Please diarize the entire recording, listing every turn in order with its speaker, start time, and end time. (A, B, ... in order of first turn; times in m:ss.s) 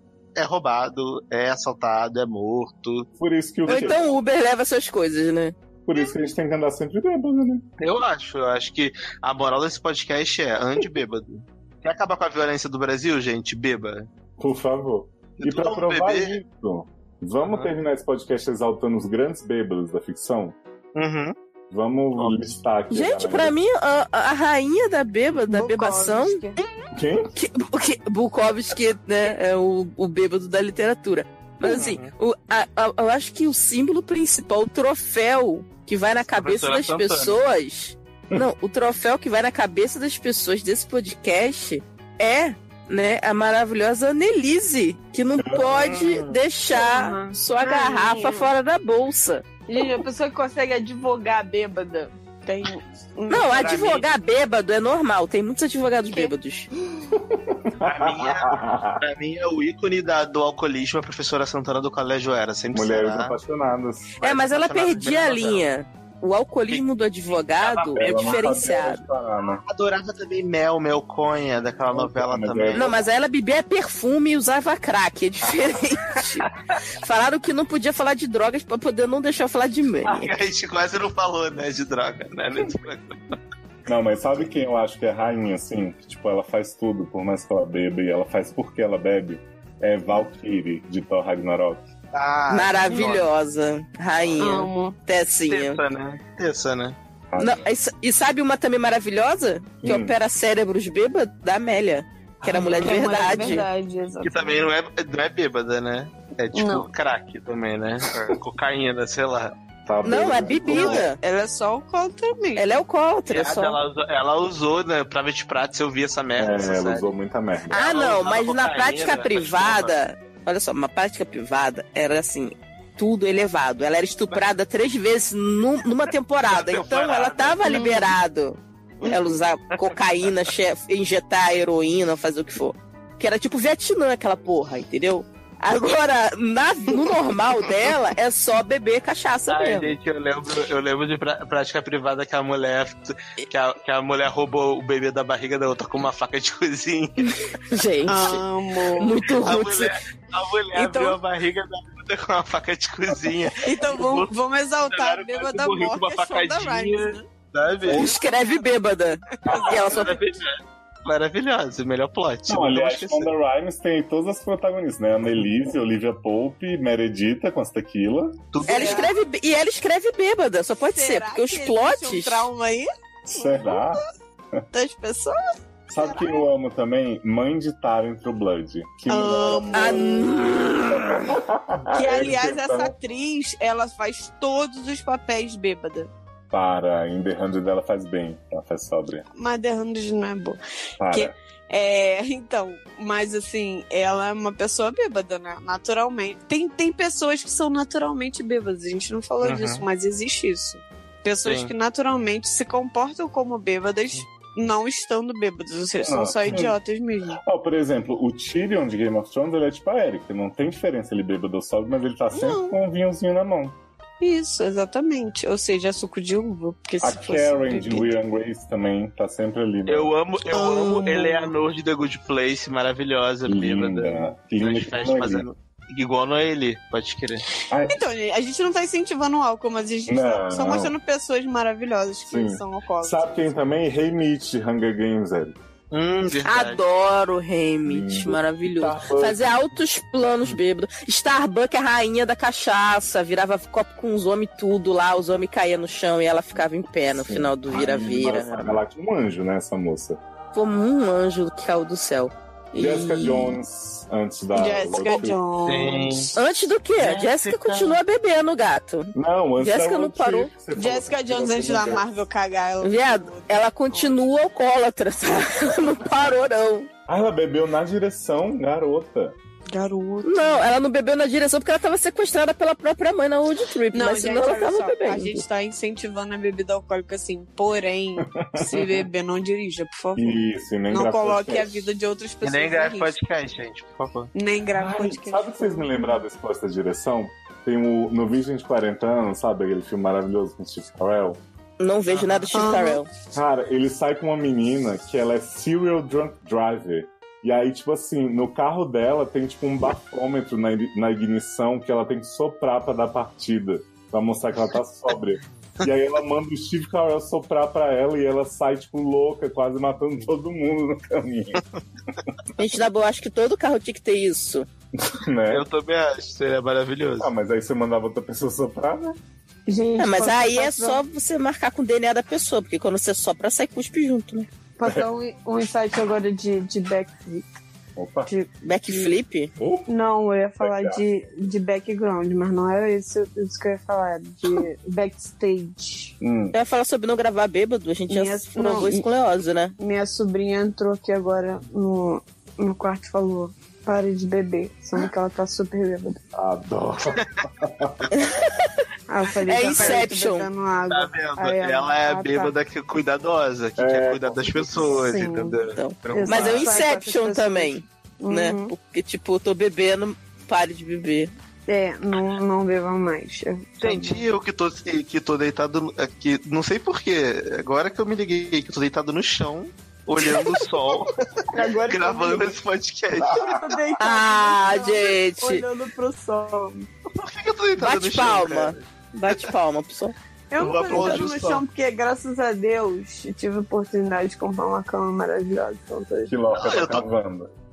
0:00.4-0:03.1 A
0:03.2-0:04.0 B
0:03.7-0:05.6 C
0:03.7-0:04.1 A
0:05.9-0:07.7 B
0:07.8-0:14.1 A
0:14.4-0:20.6 B
0:15.4-0:16.3 A
0:21.0-0:21.3 A
0:21.7-0:23.6 B
0:22.9-0:26.4 C
0:25.5-0:26.6 D
0:27.0-0:27.3 B
0:27.4-0:49.4 C
0:31.6-0:32.1 A
0:36.4-0:37.4 A
0:45.4-0:46.4 B
0:45.8-0:46.1 A
0:46.7-0:48.5 D
0:49.7-0:54.0 D
0:53.3-0:56.7 C
0:57.0-0:59.0 B
0:57.8-1:03.4 A
1:02.7-1:04.1 B
1:04.2-1:05.7 A
1:04.2-1:09.0 C
1:07.6-1:08.7 A
1:07.9-1:09.6 B
1:09.7-1:13.0 A
1:11.9-1:13.0 B
1:12.8-1:16.5 C
1:17.0-1:20.3 C
1:20.0-1:23.4 A
1:23.9-1:31.9 B
1:32.1-1:33.3 A
1:32.5-1:35.8 C
1:34.4-1:35.0 D
1:35.5-1:37.0 A
1:37.3-1:37.6 B
1:37.4-1:43.7 C
1:39.8-1:40.1 B
1:42.7-1:44.6 D
1:44.2-1:49.6 A
1:46.5-1:46.9 D
1:49.9-1:51.1 B
1:50.0-1:51.2 C
1:50.6-1:52.7 D
1:52.6-1:53.8 C
1:53.3-1:57.1 A
1:56.4-1:57.9 B
1:57.7-2:19.9 C
1:57.7-2:00.0 A
2:06.5-2:07.9 A
2:07.6-2:08.1 D
2:09.8-2:10.3 A
2:19.5-2:27.3 A
2:27.7-2:28.4 C
2:28.1-2:29.1 D
2:29.0-2:30.0 C
2:29.3-2:34.3 A
2:30.8-2:31.2 C
2:33.6-2:37.2 D
2:34.9-2:38.2 A
2:37.9-2:40.2 C
2:38.2-2:38.6 D
2:39.4-2:40.1 D
2:39.5-2:43.3 A
2:42.5-2:48.4 B
2:48.5-2:49.1 A
2:48.7-2:49.1 D
2:48.7-2:52.5 C
2:50.9-2:53.9 D
2:53.3-2:54.0 B
2:54.7-2:55.4 D
2:55.9-3:00.0 B
2:55.9-2:56.5 D
2:59.1-3:00.3 D
2:59.7-3:01.3 C
3:01.2-3:02.9 B
3:01.9-3:06.1 D
3:06.5-3:09.2 B
3:09.4-3:10.6 D
3:11.0-3:11.3 B
3:11.1-3:27.4 D
3:19.4-3:19.8 A
3:21.4-3:21.7 A
3:26.0-3:26.7 B
3:27.4-3:33.8 B
3:32.3-3:32.8 D
3:34.2-3:38.1 D
3:37.0-3:40.1 B
3:39.9-3:47.4 A
3:40.5-3:41.5 D
3:43.5-3:45.4 B
3:47.7-3:48.0 B
3:47.9-3:53.3 D
3:50.1-3:50.9 B
3:52.3-3:55.6 B
3:55.9-3:56.8 A
3:56.4-4:08.8 C
3:57.8-3:59.5 B
4:07.2-4:10.2 B
4:10.5-4:13.6 C
4:12.8-4:15.4 B
4:14.6-4:16.4 D
4:15.7-4:16.3 A
4:16.4-4:20.5 C
4:17.0-4:18.0 A
4:19.2-4:22.1 B
4:20.8-4:24.2 D
4:22.8-4:26.9 C
4:27.1-4:29.4 B
4:29.7-4:30.7 D
4:30.2-4:35.4 C
4:33.9-4:43.1 D
4:38.3-4:39.0 B
4:40.2-4:41.9 B
4:42.4-4:44.3 A
4:44.4-4:46.1 D
4:44.8-4:51.4 B
4:51.8-4:53.1 C
4:52.1-4:52.5 A
4:52.5-4:53.0 D
4:53.3-5:11.6 B
5:12.6-5:14.7 C
5:15.0-5:15.6 B
5:15.5-5:17.3 A
5:17.2-5:19.2 B
5:19.7-5:21.0 D
5:20.0-5:24.5 C
5:24.8-5:27.6 D
5:28.0-5:28.3 B
5:28.3-5:29.1 D
5:28.6-5:29.5 C
5:29.6-5:29.9 B
5:29.9-5:36.2 D
5:30.6-5:31.0 B
5:36.2-5:36.6 B
5:36.5-5:39.8 C
5:38.1-5:39.1 D
5:39.8-5:46.2 D
5:46.3-5:48.1 B
5:48.1-5:48.7 C
5:49.1-5:52.5 D
5:49.4-5:50.5 C
5:50.9-5:56.8 A
5:53.8-5:55.1 B
5:54.9-5:55.6 D
5:55.7-6:01.3 C
5:56.1-5:58.7 D
6:01.7-6:04.2 D
6:03.8-6:11.2 A
6:11.5-6:12.6 D
6:11.9-6:13.6 A
6:13.3-6:16.9 D
6:14.0-6:15.6 C
6:17.2-6:19.5 A
6:17.8-6:20.2 C
6:20.5-6:26.3 D
6:20.6-6:21.6 A
6:20.8-6:21.3 C
6:26.3-6:27.5 B
6:26.5-6:27.1 A